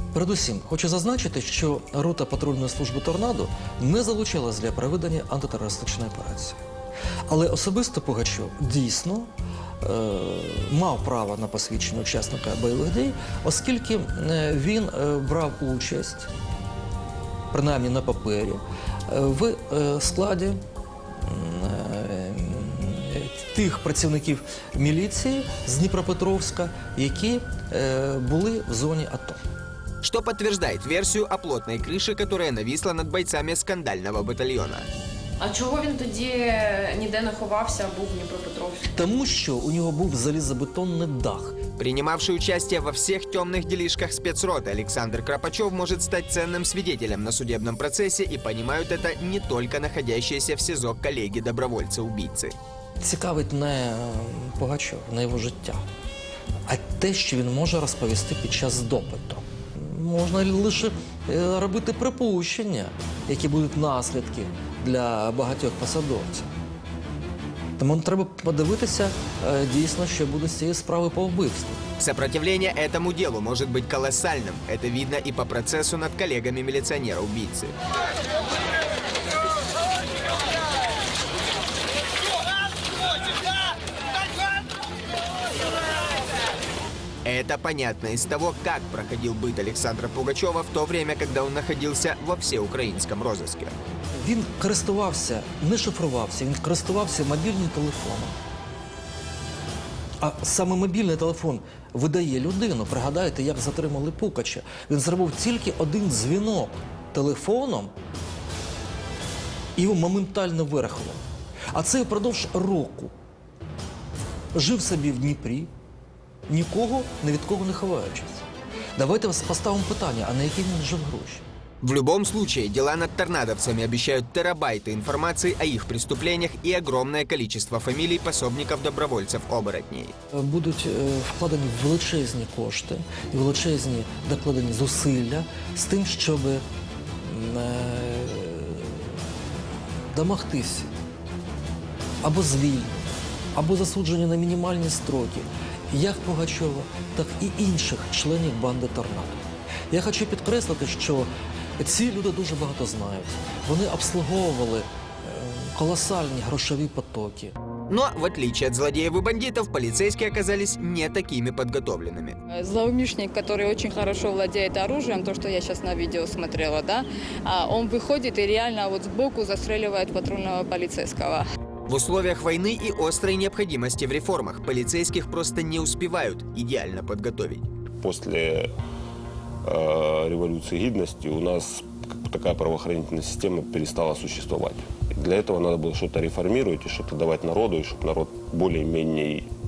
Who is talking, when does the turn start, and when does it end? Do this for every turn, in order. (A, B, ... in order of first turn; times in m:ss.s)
0:00.1-0:06.6 A
0:07.3-0:09.3 A
0:09.8-0:16.3 A
0:17.5-0:20.6 A
0:21.2-0:29.4 A
0:30.0-0:34.9 B
0:35.4-0:38.9 C
0:38.9-0:41.6 A
0:41.8-0:52.6 B
0:53.0-0:55.8 A
0:56.7-1:06.5 A
1:07.8-1:11.8 A
1:12.0-1:17.8 B
1:27.2-1:33.7 B
1:34.2-1:38.4 A
1:40.2-1:47.9 A
1:49.8-1:51.2 A
1:51.7-1:53.1 A
1:54.5-1:55.7 A
1:56.5-1:58.4 A
1:59.0-2:01.4 A
2:01.8-2:10.1 B
2:10.3-2:16.6 A
2:17.2-2:19.2 A
2:20.1-2:20.9 A
2:22.2-2:37.5 A
2:37.9-2:42.4 B
2:42.5-2:51.5 D
2:51.9-2:57.6 B
2:58.0-2:58.7 E
2:59.6-3:09.5 E